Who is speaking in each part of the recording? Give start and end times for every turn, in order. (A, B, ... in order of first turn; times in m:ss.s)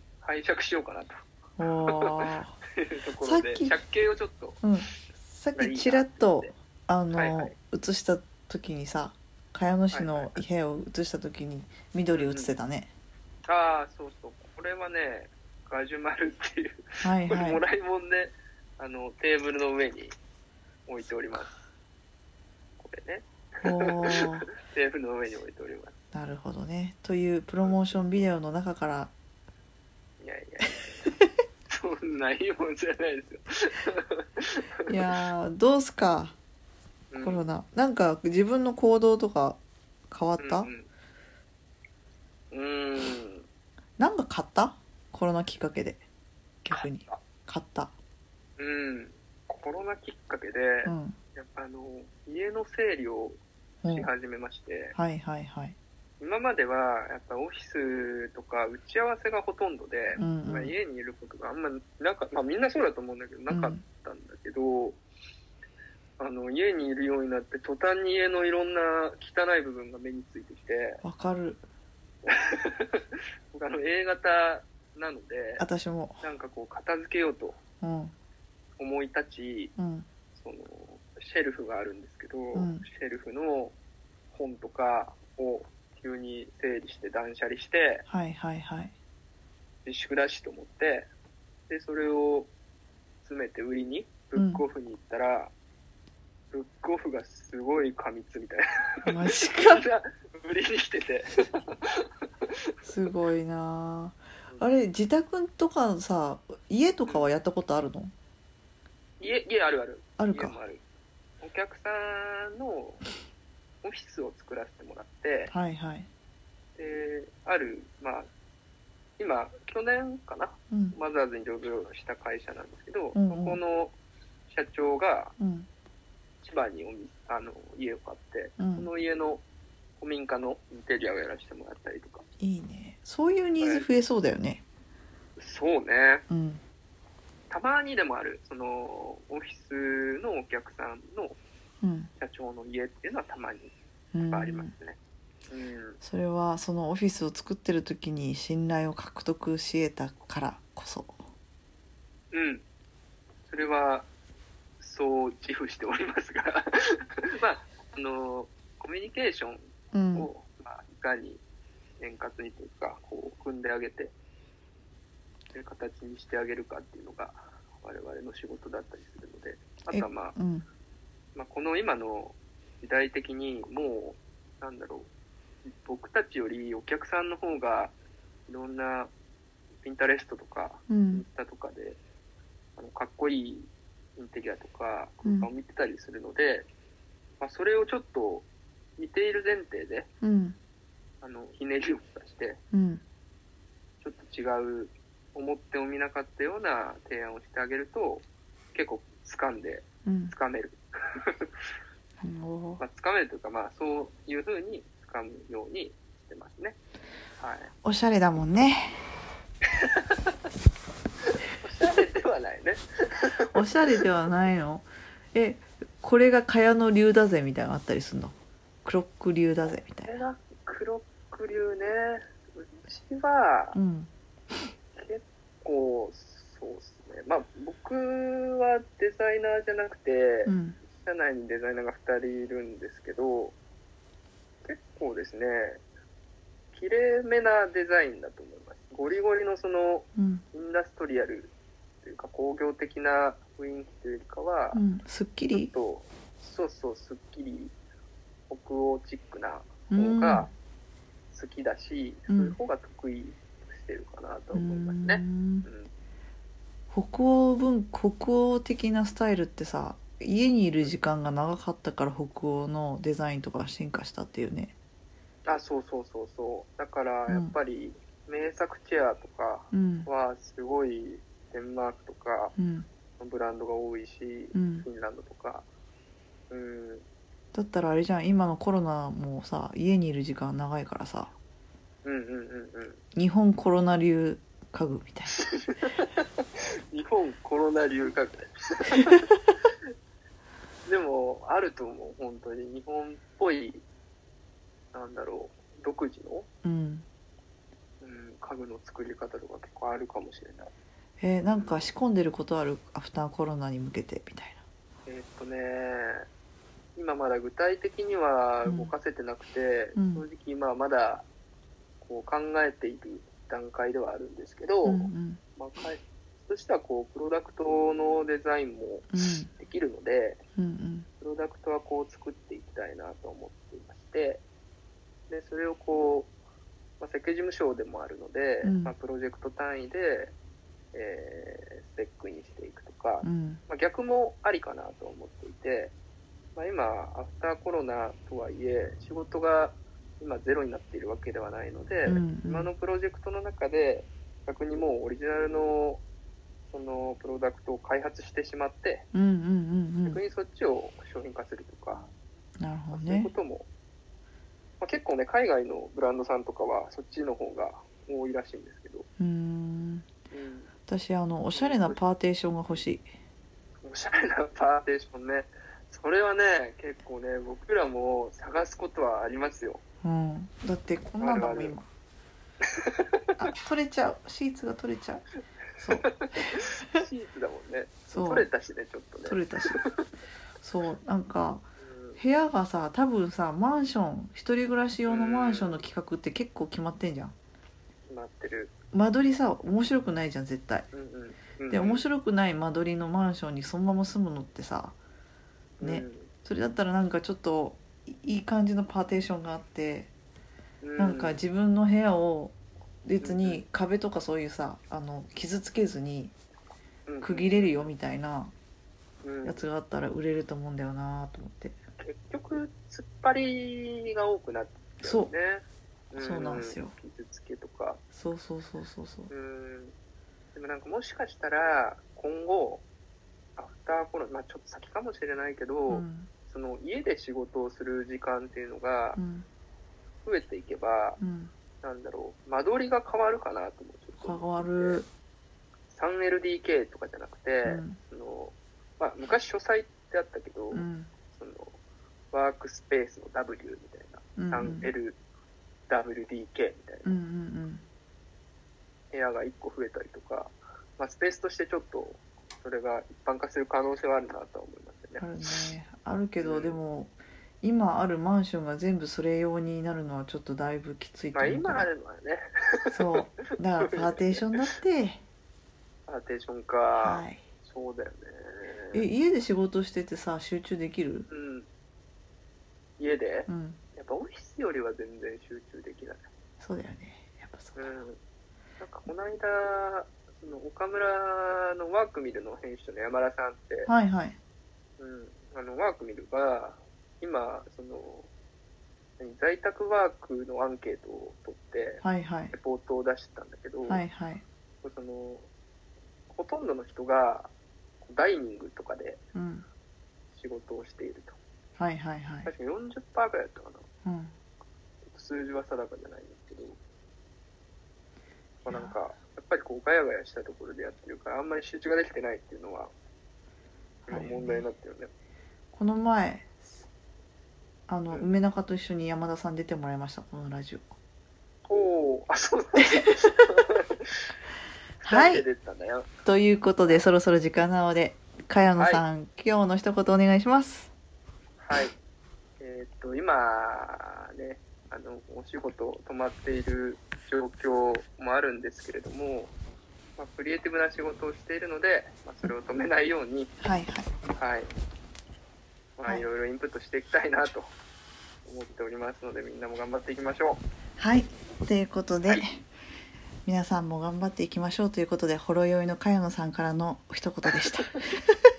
0:00.2-0:01.2 A
0:01.6-0:02.6 B
0:01.9-0:04.6 A
0:03.2-0:03.8 B
0:04.6-0:12.9 B
0:05.6-0:06.5 A
0:07.1-0:07.5 A
0:09.9-0:10.4 A
0:12.2-0:12.5 A
0:13.5-0:20.1 A
0:17.0-0:17.6 B
0:20.9-0:21.6 A
0:22.8-0:25.9 A
0:23.6-0:24.5 B
0:26.1-0:29.1 B
0:27.6-0:27.9 A
0:30.2-0:31.0 A
0:31.7-0:34.9 A
0:34.9-0:36.4 B
0:37.1-0:37.5 A
0:37.2-0:39.6 B
0:40.1-0:40.7 B
0:40.4-0:40.9 A
0:42.5-0:43.5 A
0:44.0-0:46.0 B
0:46.6-0:47.9 B
0:46.7-0:47.2 A
0:48.6-0:55.0 A
0:50.8-0:51.2 B
0:53.8-0:54.1 B
0:55.0-0:55.8 B
0:56.2-1:05.0 A
1:00.2-1:00.8 B
1:03.5-1:03.8 B
1:06.2-1:11.0 A
1:11.0-1:11.6 B
1:12.3-1:15.6 A
1:15.6-1:16.2 B
1:16.2-1:17.6 A
1:17.8-1:18.1 B
1:18.8-1:19.7 A
1:19.8-1:20.1 B
1:20.3-1:23.8 A
1:22.5-1:22.8 B
1:24.3-1:28.0 A
1:28.1-1:28.9 B
1:29.8-1:31.1 A
1:31.7-1:32.5 A
1:33.2-1:35.5 A
1:34.4-1:34.6 B
1:36.5-1:42.5 A
1:39.1-1:39.9 B
1:42.8-1:48.1 B
1:49.2-1:50.8 A
1:50.2-1:50.6 B
1:51.4-1:53.0 A
1:53.8-1:55.5 A
1:55.5-1:56.1 B
1:56.8-1:58.3 A
1:59.2-2:04.0 A
2:00.7-2:01.0 B
2:03.2-2:03.6 B
2:04.5-2:05.4 A
2:05.4-2:05.7 B
2:06.4-2:09.4 A
2:08.6-2:08.9 B
2:10.0-2:12.2 A
2:12.4-2:14.6 B
2:13.6-2:13.9 A
2:15.4-2:16.2 A
2:16.3-2:16.6 B
2:17.5-2:21.4 A
2:21.8-2:22.1 B
2:22.2-2:25.0 A
2:24.1-2:24.7 B
2:25.5-2:26.0 A
2:26.0-2:31.2 B
2:32.3-2:32.6 A
2:33.5-2:34.1 A
2:34.8-2:41.4 A
2:39.9-2:40.3 B
2:42.0-2:44.1 A
2:45.5-2:50.4 A
2:49.9-2:50.6 B
2:51.4-2:55.1 A
2:55.6-2:57.9 A
2:58.5-2:59.1 A
2:59.8-3:02.0 A
3:00.9-3:01.2 B
3:02.8-3:06.7 A
3:05.2-3:05.5 B
3:07.4-3:10.1 A
3:10.2-3:10.6 B
3:11.2-3:12.6 A
3:12.7-3:13.0 B
3:14.0-3:21.5 A
3:20.1-3:20.4 B
3:22.2-3:22.8 B
3:22.8-3:26.8 A
3:27.4-3:27.7 A
3:27.8-3:29.0 B
3:29.8-3:30.2 A
3:31.6-3:33.8 A
3:33.5-3:40.1 B
3:40.0-3:43.8 A
3:43.7-3:44.1 B
3:45.0-3:53.6 A
3:50.4-3:50.8 B
3:54.6-3:55.8 A
3:56.7-4:04.8 A
4:00.2-4:00.4 B
4:04.7-4:05.7 B
4:05.5-4:07.7 A
4:08.5-4:10.5 A
4:09.9-4:10.5 B
4:11.3-4:15.9 A
4:12.3-4:12.6 B
4:14.5-4:15.7 B
4:16.9-4:24.8 B
4:25.5-4:32.6 A
4:27.3-4:27.6 B
4:29.7-4:30.1 B
4:32.6-4:32.9 B
4:33.2-4:35.7 A
4:34.5-4:34.9 B
4:36.5-4:37.0 A
4:37.5-4:41.3 B
4:42.0-4:43.0 A
4:43.2-4:45.4 B
4:45.4-4:46.3 A
4:46.9-4:49.4 A
4:50.9-4:53.8 A
4:54.9-4:56.5 A
4:56.6-4:57.0 B
4:58.0-5:00.7 A
5:01.2-5:04.6 B
5:01.5-5:01.9 A
5:05.1-5:06.2 A
5:07.0-5:11.3 A
5:08.7-5:08.9 B
5:10.0-5:10.3 B
5:12.0-5:20.4 A
5:14.8-5:15.4 B
5:19.1-5:19.5 B
5:20.6-5:21.1 B
5:21.2-5:24.4 A
5:25.3-5:26.3 A
5:27.0-5:30.3 A
5:28.6-5:28.9 B
5:30.9-5:35.9 A
5:33.2-5:33.6 B
5:36.6-5:46.0 A
5:42.0-5:42.7 B
5:46.7-5:49.1 A
5:49.1-5:50.2 B
5:50.0-5:52.1 A
5:52.6-5:53.3 B
5:52.9-5:53.7 A
5:54.8-5:59.1 A
5:59.2-6:00.1 B
6:00.3-6:00.7 A
6:00.9-6:03.1 B
6:01.5-6:02.0 A
6:03.8-6:09.8 A
6:10.0-6:11.9 B
6:11.2-6:11.8 A
6:12.6-6:13.2 A
6:13.4-6:15.2 B
6:15.8-6:17.0 B
6:16.1-6:20.0 A
6:18.1-6:18.5 B
6:19.3-6:19.8 B
6:20.6-6:21.7 B
6:21.8-6:22.2 A
6:22.2-6:27.3 B
6:25.1-6:25.8 A
6:28.1-6:28.8 A
6:28.9-6:30.9 B
6:30.9-6:32.1 A
6:31.7-6:35.0 B
6:35.8-6:36.3 A
6:35.8-6:40.1 B
6:40.8-6:41.4 A
6:41.0-6:46.4 B
6:43.2-6:43.6 A
6:47.1-6:47.9 A
6:47.2-6:48.5 B
6:49.2-6:49.6 A
6:49.4-6:51.8 B
6:52.0-6:58.0 A
6:55.0-6:55.3 B
6:56.2-6:57.0 B
6:58.1-6:59.3 B
6:59.3-6:59.9 A
7:00.6-7:02.8 A
7:03.6-7:09.2 A
7:05.9-7:06.3 B
7:09.2-7:09.5 B
7:10.2-7:11.2 A
7:11.2-7:11.5 B
7:11.8-7:15.0 A
7:14.2-7:15.1 B
7:15.9-7:21.8 A
7:17.6-7:18.0 B
7:20.7-7:21.1 B
7:22.3-7:25.2 A
7:24.4-7:24.9 B
7:25.9-7:27.2 A
7:27.0-7:27.8 B
7:29.1-7:35.7 A
7:35.2-7:41.9 B
7:36.4-7:36.8 A
7:41.3-7:44.6 A
7:42.9-7:45.2 B
7:46.1-7:49.1 A
7:47.0-7:47.4 B
7:48.9-7:51.3 B
7:51.3-7:51.7 A
7:53.0-7:56.3 A
7:53.5-7:53.8 B
7:56.6-7:58.0 B
7:57.8-7:58.2 A
7:58.8-8:03.9 A
8:03.9-8:04.4 B
8:05.0-8:08.3 A
8:09.2-8:14.0 A
8:12.0-8:12.5 B
8:13.9-8:14.4 B
8:14.8-8:15.5 A
8:16.3-8:17.5 A
8:18.0-8:19.2 A
8:19.4-8:19.7 B
8:20.3-8:21.4 A
8:21.8-8:22.5 B
8:22.4-8:23.9 A
8:24.0-8:24.3 B
8:25.0-8:26.8 A
8:28.6-8:32.9 A
8:28.7-8:29.0 B
8:34.1-8:35.1 A
8:34.1-8:34.7 B
8:35.7-8:36.6 B
8:37.9-8:40.9 B
8:41.7-8:44.3 A
8:45.0-8:45.5 B
8:45.0-8:46.1 A
8:46.2-8:50.9 B
8:46.8-8:47.1 A
8:48.8-8:49.0 A
8:51.6-8:51.9 A
8:52.6-8:59.5 A
9:00.2-9:03.5 A
9:03.6-9:04.1 B
9:04.4-9:04.7 A
9:06.0-9:07.7 A
9:08.5-9:10.6 A
9:11.0-9:12.7 B
9:13.4-9:18.2 B
9:17.6-9:18.0 A